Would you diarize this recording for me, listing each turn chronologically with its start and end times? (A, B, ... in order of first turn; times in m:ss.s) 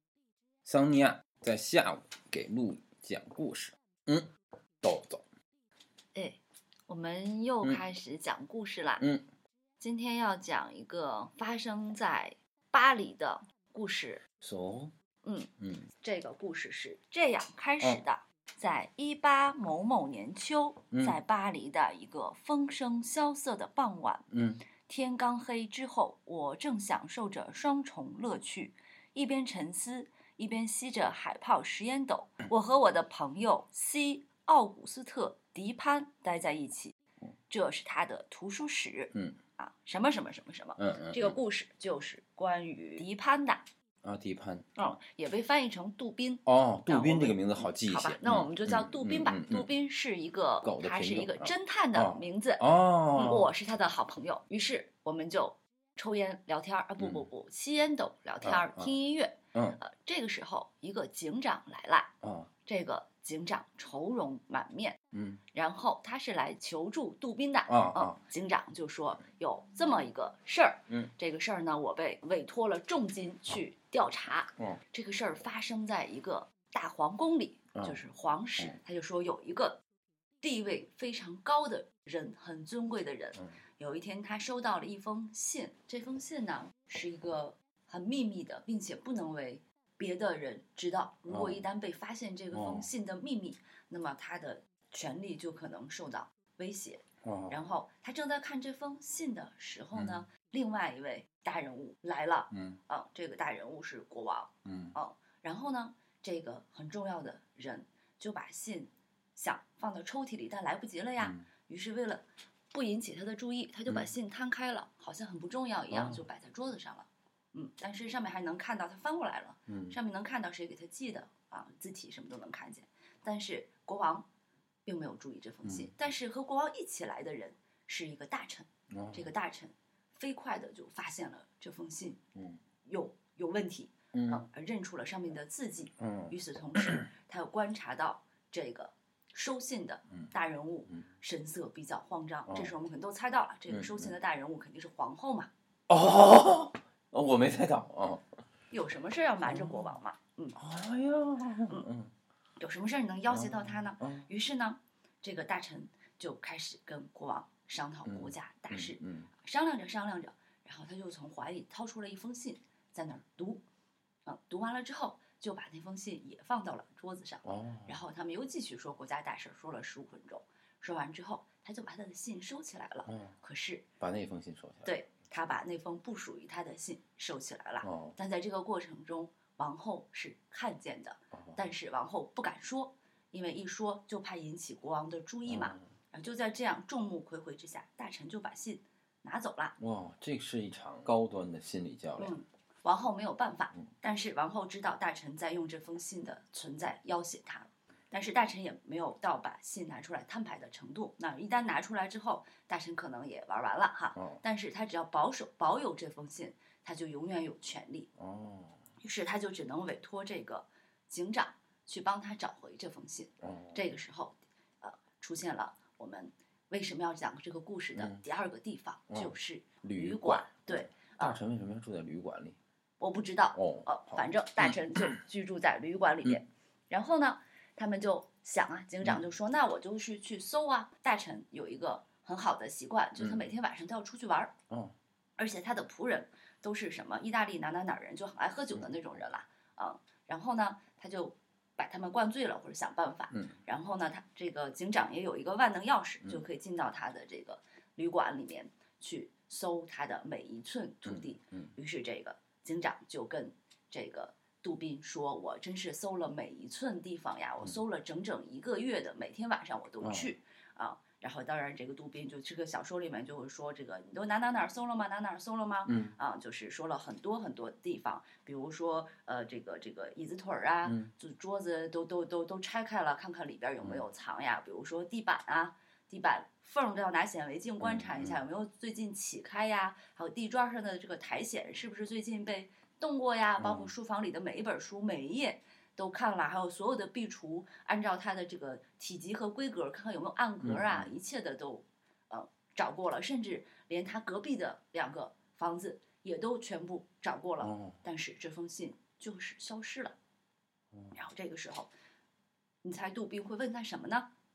0:00.6-0:05.2 A
0:06.2-0:09.1 B
0:09.8-0:14.2 B
0:14.4-0:14.9 A
0:15.2-0:24.3 B
0:15.6-0:15.9 A
0:20.9-0:21.2 A
0:24.3-0:24.6 A
0:24.8-0:37.0 B
0:37.5-0:43.6 B
0:40.8-0:41.4 A
0:44.0-0:44.7 A
0:44.8-0:52.6 B
0:46.5-0:49.7 A
0:50.6-0:53.5 A
0:53.1-1:02.1 B
0:57.0-0:57.2 A
0:58.4-0:58.9 A
0:59.5-0:59.8 A
1:02.2-1:02.5 A
1:02.7-1:05.0 B
1:05.5-1:19.8 B
1:07.7-1:08.2 A
1:20.4-2:04.3 B
1:31.3-1:31.6 A
1:32.5-1:32.8 A
1:37.2-1:37.6 A
1:39.9-1:40.2 A
1:42.5-1:42.8 A
1:44.7-1:45.0 A
1:51.2-1:51.4 A
1:55.9-1:56.2 A
1:59.7-2:00.0 A
2:04.9-2:12.2 B
2:08.9-2:09.3 A
2:12.9-2:25.5 B
2:14.1-2:14.4 A
2:16.0-2:17.0 A
2:22.5-2:22.7 A
2:23.7-2:24.1 A
2:25.9-2:28.4 A
2:28.7-2:30.6 B
2:29.5-2:29.8 A
2:30.6-2:32.1 A
2:32.6-2:43.6 B
2:33.3-2:34.3 A
2:38.1-2:39.3 A
2:44.3-2:53.9 B
2:47.4-2:47.9 A
2:53.1-2:53.3 A
2:54.0-2:54.9 A
2:54.8-3:09.8 B
2:57.8-2:58.2 A
3:05.5-3:05.8 A
3:09.8-3:12.3 A
3:12.2-3:28.1 B
3:28.2-3:28.8 A
3:29.0-3:41.4 B
3:33.4-3:33.8 A
3:39.1-3:42.6 A
3:43.0-3:54.5 B
3:43.6-3:44.2 A
3:53.2-3:53.5 A
3:55.4-5:00.2 B
4:11.1-4:11.7 A
4:20.0-4:20.3 A
4:25.9-4:26.2 A
4:30.8-4:31.1 A
4:37.8-4:38.4 A
4:43.6-4:43.9 A
4:50.6-4:51.1 A
4:57.6-4:58.0 A
5:01.1-5:01.9 B
5:02.8-5:04.3 B